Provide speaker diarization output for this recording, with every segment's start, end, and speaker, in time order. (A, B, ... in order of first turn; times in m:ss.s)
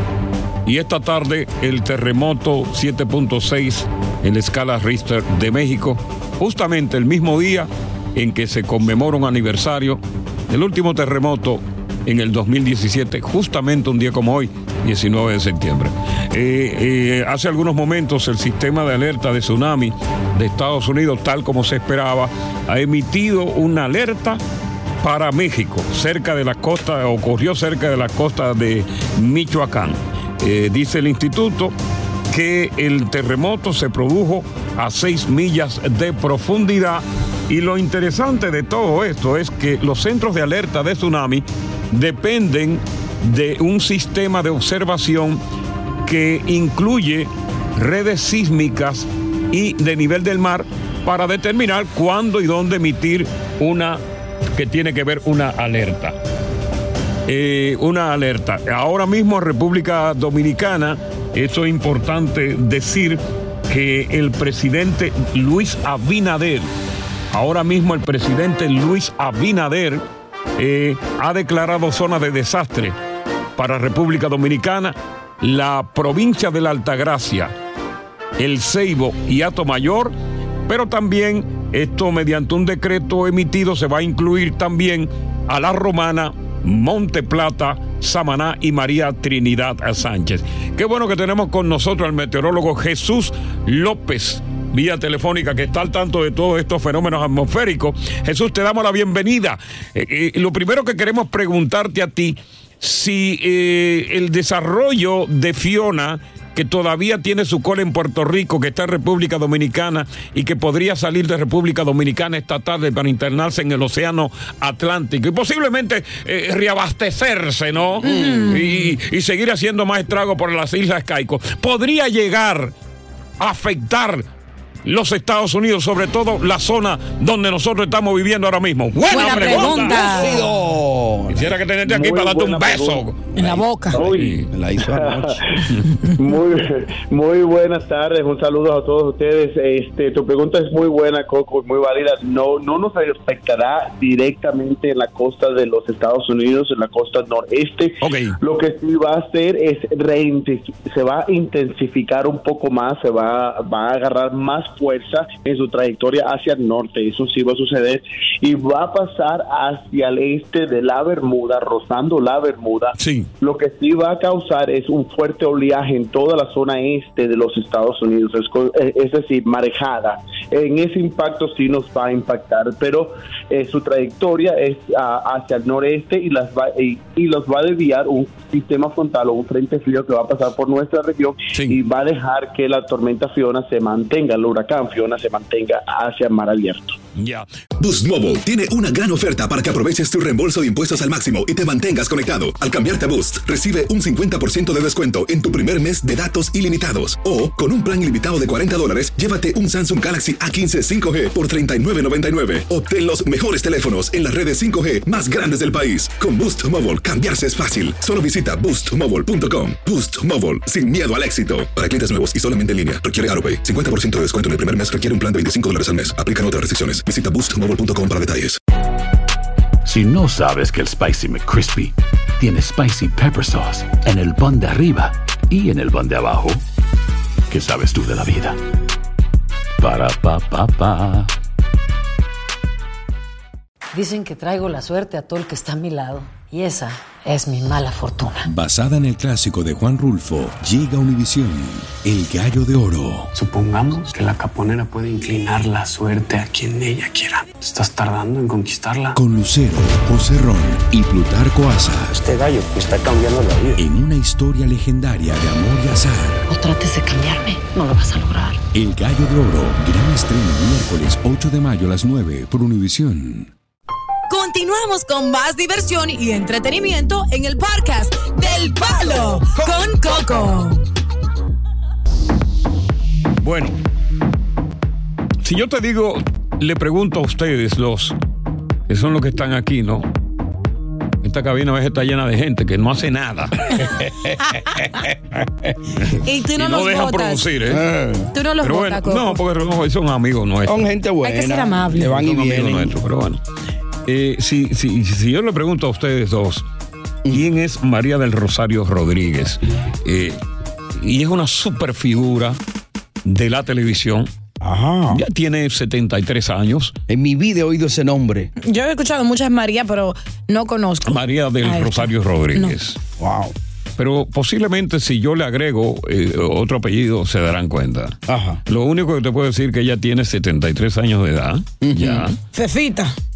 0:00.6-0:24.4 A
0:25.0-0:31.7 A
0:32.3-0:45.4 A
0:46.0-0:54.0 A
0:54.5-0:56.2 A
0:57.3-1:06.7 A
1:07.3-1:10.0 A
1:10.6-1:13.0 A
1:13.6-1:17.5 A
1:18.4-1:20.1 A
1:20.7-2:02.7 A
1:58.0-1:58.6 B
1:58.0-1:58.9 C
2:03.4-2:04.2 A
2:04.8-2:10.4 A
2:09.1-2:10.4 C
2:09.3-2:11.5 B
2:11.3-2:13.4 A
2:11.8-2:13.0 D
2:13.4-2:14.0 C
2:13.4-2:15.4 B
2:13.9-2:15.3 D
2:14.0-2:14.5 A
2:16.2-3:06.9 D
2:28.0-2:28.4 A
2:43.0-2:43.3 A
3:07.2-3:07.5 A
3:07.8-3:38.6 E
3:39.8-3:46.6 F
3:47.5-3:48.6 F
3:49.8-3:51.3 F
3:53.9-3:58.5 G
3:58.4-4:03.3 H
4:03.3-4:09.2 I
4:09.1-4:12.2 H
4:12.1-4:13.8 I
4:13.8-4:16.4 H
4:16.5-4:18.6 G
4:18.7-4:23.5 H
4:24.3-4:30.8 C
4:29.4-4:29.9 B
4:33.4-4:33.8 A
4:35.4-4:38.2 A
4:38.9-4:40.1 A
4:41.2-4:43.9 A
4:43.8-4:45.7 B
4:46.0-4:47.8 A
4:46.2-4:47.5 C
4:47.7-4:48.3 B
4:48.3-4:49.4 C
4:48.6-4:50.9 A
4:50.7-4:52.9 B
4:51.2-4:52.1 C
4:51.9-4:53.4 A
4:54.1-4:56.6 A
4:57.3-5:00.4 A
5:01.0-5:02.6 A
5:03.2-5:04.3 A
5:04.6-5:05.2 B
5:05.1-5:06.9 A
5:07.1-5:08.5 B
5:08.6-5:12.8 C
5:11.0-5:13.0 A
5:13.2-5:13.5 B
5:14.0-5:18.2 A
5:18.3-5:18.6 B
5:18.7-5:22.4 A
5:21.8-5:22.3 B
5:22.5-5:23.1 C